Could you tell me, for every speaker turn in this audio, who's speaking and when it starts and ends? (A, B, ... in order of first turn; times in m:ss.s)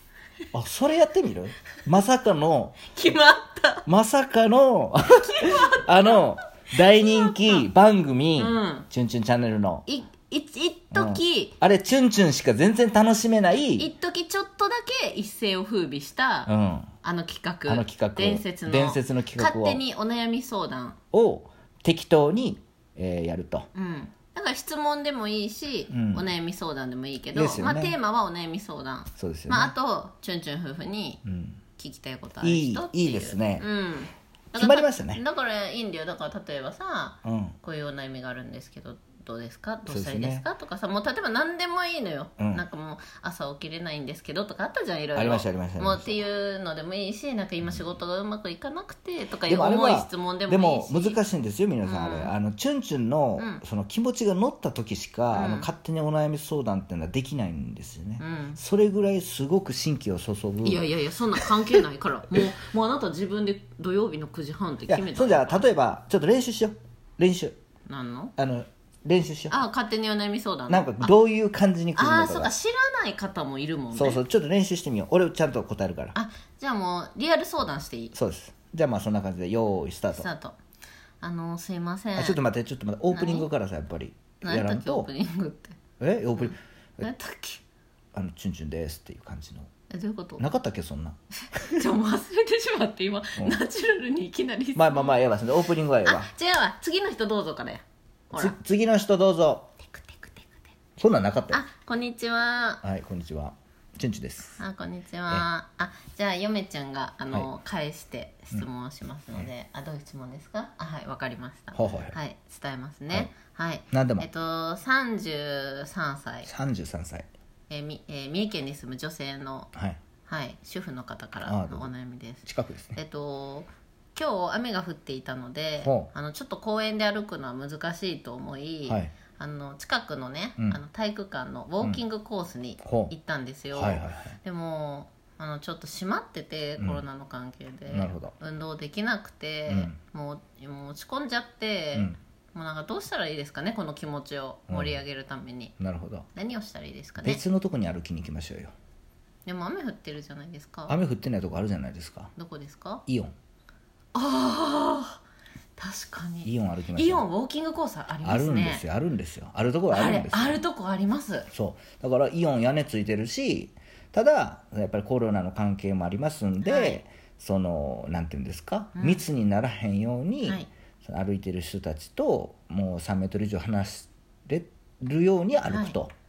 0:00.5-0:02.9 A
0:02.9-0:03.9 B
0:03.9-0:09.8 A
0:05.1-0:07.7 B
0:08.4-0:08.9 B
0:09.9-0:11.6 B
0:10.9-0:13.9 A
0:13.8-0:16.5 B
0:16.5-0:16.9 A
0:17.0-0:21.0 B
0:17.7-0:19.8 A
0:21.1-0:23.7 A
0:23.7-0:31.2 B
0:25.9-0:26.3 A
0:27.3-0:28.0 A
0:29.2-0:29.7 A
0:31.2-0:31.6 A
0:31.8-0:51.2 B
0:32.4-0:33.7 A
0:34.6-0:35.2 A
0:37.2-0:37.6 A
0:39.9-0:40.4 A
0:42.4-0:42.6 A
0:45.1-0:46.2 A
0:49.5-1:00.8 A
0:51.8-0:52.3 B
0:53.4-0:53.6 B
0:55.3-0:55.7 B
0:58.2-0:58.6 B
1:00.6-1:05.7 B
1:04.9-1:07.6 A
1:07.9-1:08.3 B
1:08.4-1:09.6 A
1:09.5-1:11.1 B
1:10.7-1:12.5 A
1:12.0-1:14.2 B
1:14.0-1:16.2 A
1:16.1-1:18.2 B
1:18.1-1:20.3 A
1:20.1-1:20.6 B
1:21.2-1:22.4 B
1:22.2-1:25.1 A
1:23.1-1:23.5 B
1:24.4-1:25.8 B
1:26.0-1:27.1 A
1:26.4-1:27.6 B
1:28.1-1:29.7 A
1:29.9-1:30.5 B
1:30.4-1:31.8 A
1:31.7-1:35.2 B
1:34.8-1:36.3 A
1:36.0-1:38.6 B
1:38.3-1:39.7 A
1:39.8-1:40.5 B
1:41.0-1:41.6 A
1:41.5-1:42.8 B
1:42.8-1:44.6 A
1:44.6-1:56.5 B
1:51.7-1:52.2 A
1:53.9-1:54.2 A
1:56.4-1:57.3 A
1:57.7-1:59.7 B
2:00.2-2:25.8 B
2:01.4-2:01.9 A
2:02.4-2:03.0 A
2:05.8-2:06.1 A
2:08.9-2:09.1 A
2:12.8-2:13.1 A
2:13.7-2:14.4 A
2:16.8-2:17.0 A
2:17.9-2:18.3 A
2:19.7-2:20.0 A
2:24.7-2:25.0 A
2:25.8-2:26.3 A
2:26.4-2:27.4 B
2:27.2-2:28.7 A
2:29.5-2:31.0 B
2:30.9-2:32.3 A
2:32.4-2:33.0 B
2:33.1-2:33.3 A
2:34.1-2:35.2 B
2:35.8-2:38.8 B
2:36.4-2:37.2 A
2:38.2-2:40.6 A
2:39.9-2:41.5 B
2:41.5-2:56.1 A
2:46.6-2:47.0 B
2:49.0-2:49.2 B
2:50.4-2:50.7 B
2:55.7-2:56.0 B